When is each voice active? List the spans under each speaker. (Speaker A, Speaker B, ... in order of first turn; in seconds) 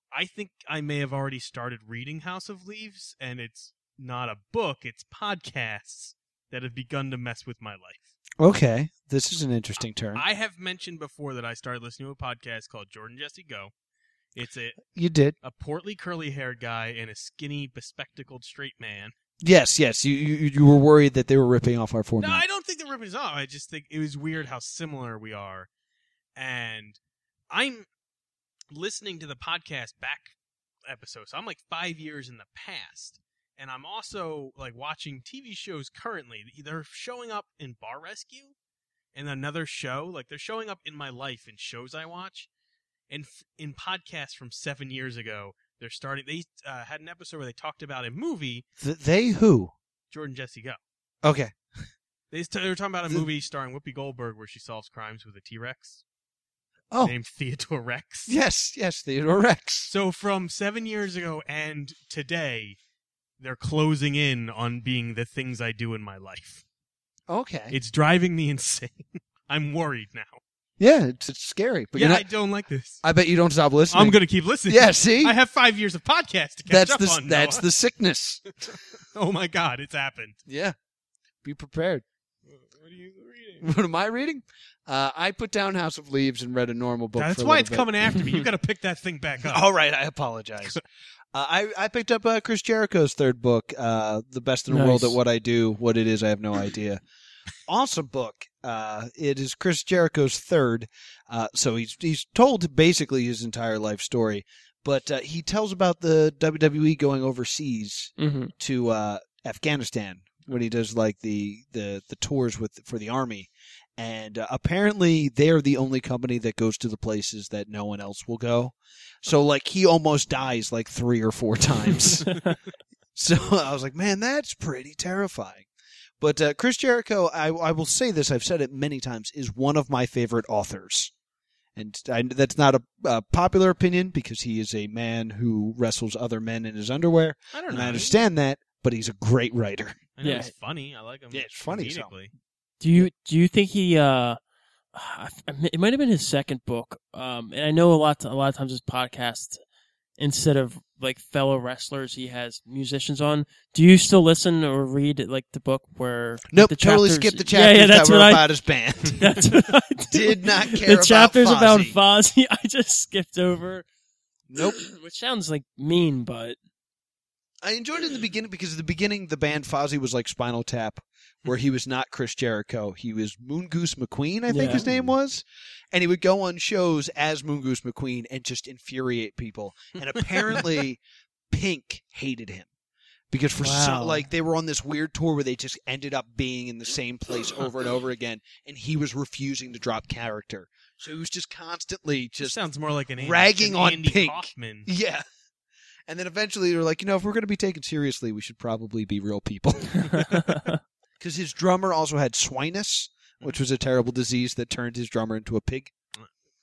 Speaker A: 0.1-8.2, 10.1-13.7, 14.3-14.9, 15.4-19.1, 22.2-25.7, 26.4-27.0, 27.5-27.9, 28.7-30.3, 30.9-38.5, 39.1-42.5, 43.1-48.6, 50.1-50.8, 52.3-56.0, 57.0-58.3, 59.9-62.8, 63.4-66.6, 67.7-70.4, 72.0-73.0, 73.9-77.7, 78.7-80.4, 82.5-83.7, 87.2-89.6, 137.5-138.2, 140.2-142.3, 174.7-175.0, 180.2-180.6, 192.4-194.9
Speaker B: 8.4-10.2, 14.9-15.3, 19.4-22.4, 48.8-49.7, 51.2-51.5, 58.3-59.9, 67.3-67.8, 70.8-72.3, 73.0-75.3, 76.7-78.5, 80.5-80.8, 81.4-82.0, 83.6-87.9, 89.5-90.8, 91.3-97.0, 97.7-122.4, 123.2-125.7, 126.2-131.1, 131.8-140.0, 141.3-142.1, 156.5-159.3, 160.1-162.0, 164.5-164.8, 167.6-182.7, 183.3-192.6, 193.2-195.2, 196.1-200.5, 201.2-205.9
Speaker C: 94.7-95.2, 108.2-108.5, 140.2-140.5, 142.8-144.4, 144.9-149.6, 150.2-158.5, 159.1-163.9, 164.6-166.6, 174.5-174.8, 183.6-184.2